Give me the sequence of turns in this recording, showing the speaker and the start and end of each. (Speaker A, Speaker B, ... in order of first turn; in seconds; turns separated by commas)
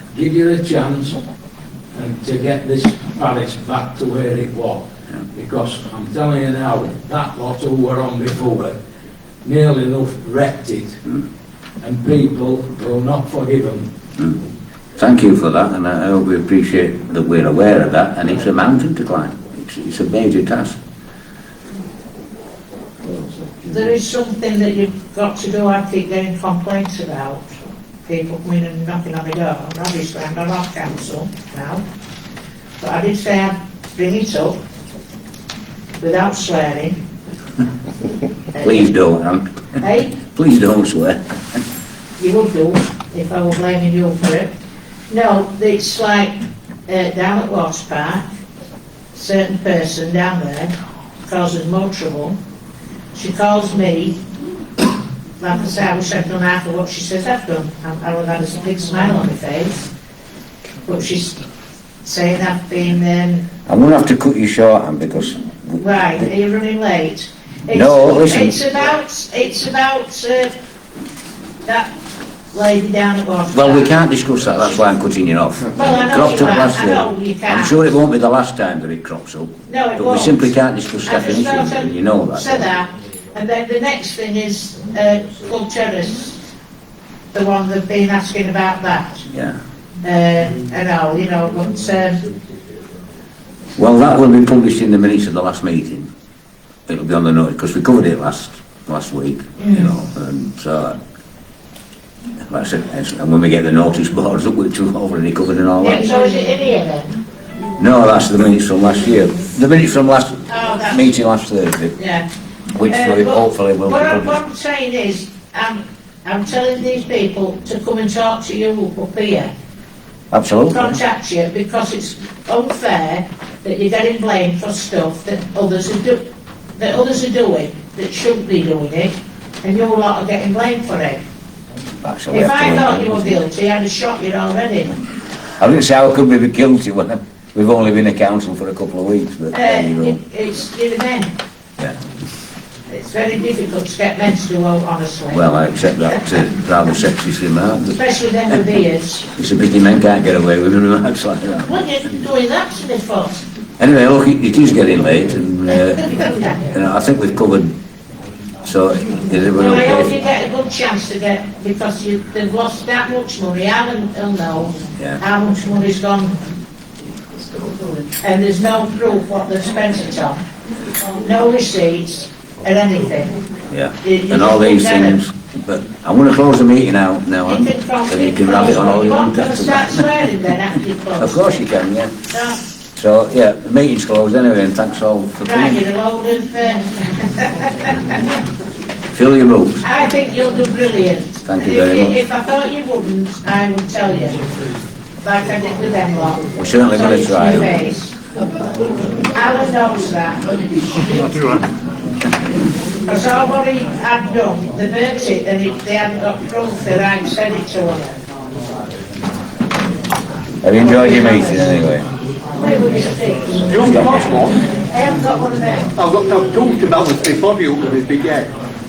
Speaker A: 0.1-1.2, Speaker A: 1.9-8.8, Speaker A: 9.4-11.0, Speaker A: 11.8-13.9, Speaker B: 14.9-20.8, Speaker B: 23.1-23.8, Speaker C: 23.7-27.5, Speaker C: 28.1-31.8, Speaker C: 32.8-34.5, Speaker C: 36.0-37.0, Speaker B: 38.6-39.4, Speaker C: 39.8-40.1, Speaker B: 40.1-41.2, Speaker C: 42.2-44.5, Speaker C: 45.1-46.3, Speaker C: 46.9-48.2, Speaker C: 49.1-50.7, Speaker C: 51.2-52.4, Speaker C: 53.1-54.2, Speaker C: 55.4-59.9, Speaker C: 60.9-61.4, Speaker C: 62.0-63.5, Speaker B: 63.7-65.8, Speaker C: 65.8-70.5, Speaker B: 67.7-68.6, Speaker C: 72.5-73.9, Speaker B: 73.5-82.7, Speaker C: 75.7-77.7, Speaker C: 79.7-80.4, Speaker C: 81.0-86.4, Speaker C: 87.3-89.2, Speaker B: 89.3-89.6, Speaker C: 90.0-92.2, Speaker B: 93.8-96.1, Speaker B: 96.9-101.0, Speaker C: 99.6-99.9, Speaker B: 102.5-106.1, Speaker C: 105.8-107.1, Speaker B: 107.8-112.0, Speaker C: 110.5-111.1, Speaker C: 112.0-112.2, Speaker B: 112.7-114.4, Speaker C: 112.8-119.5, Speaker B: 120.3-121.0, Speaker C: 120.7-126.2, Speaker C: 126.8-131.2, Speaker B: 132.0-133.3, Speaker C: 132.3-134.9, Speaker B: 135.6-140.2, Speaker C: 139.5-141.3, Speaker C: 142.9-145.5, Speaker B: 145.3-148.0, Speaker C: 147.9-149.3, Speaker B: 149.3-151.7, Speaker C: 151.6-153.4, Speaker B: 153.8-157.7, Speaker C: 155.7-156.6, Speaker B: 158.6-160.2, Speaker C: 159.5-166.4, Speaker B: 164.9-165.2, Speaker C: 168.2-170.4, Speaker C: 171.2-173.4, Speaker B: 173.7-180.3, Speaker C: 174.0-175.2, Speaker C: 177.4-181.5, Speaker B: 181.2-182.2, Speaker C: 182.3-182.6, Speaker B: 182.9-185.8, Speaker C: 185.4-188.2, Speaker B: 189.1-189.8, Speaker C: 189.8-194.4, Speaker B: 191.4-192.1, Speaker C: 195.2-198.2, Speaker B: 196.6-197.7, Speaker C: 199.3-201.7, Speaker C: 203.1-208.1, Speaker B: 210.6-212.1, Speaker C: 210.8-211.8, Speaker C: 212.5-215.9, Speaker D: 213.7-214.6, Speaker D: 215.9-218.5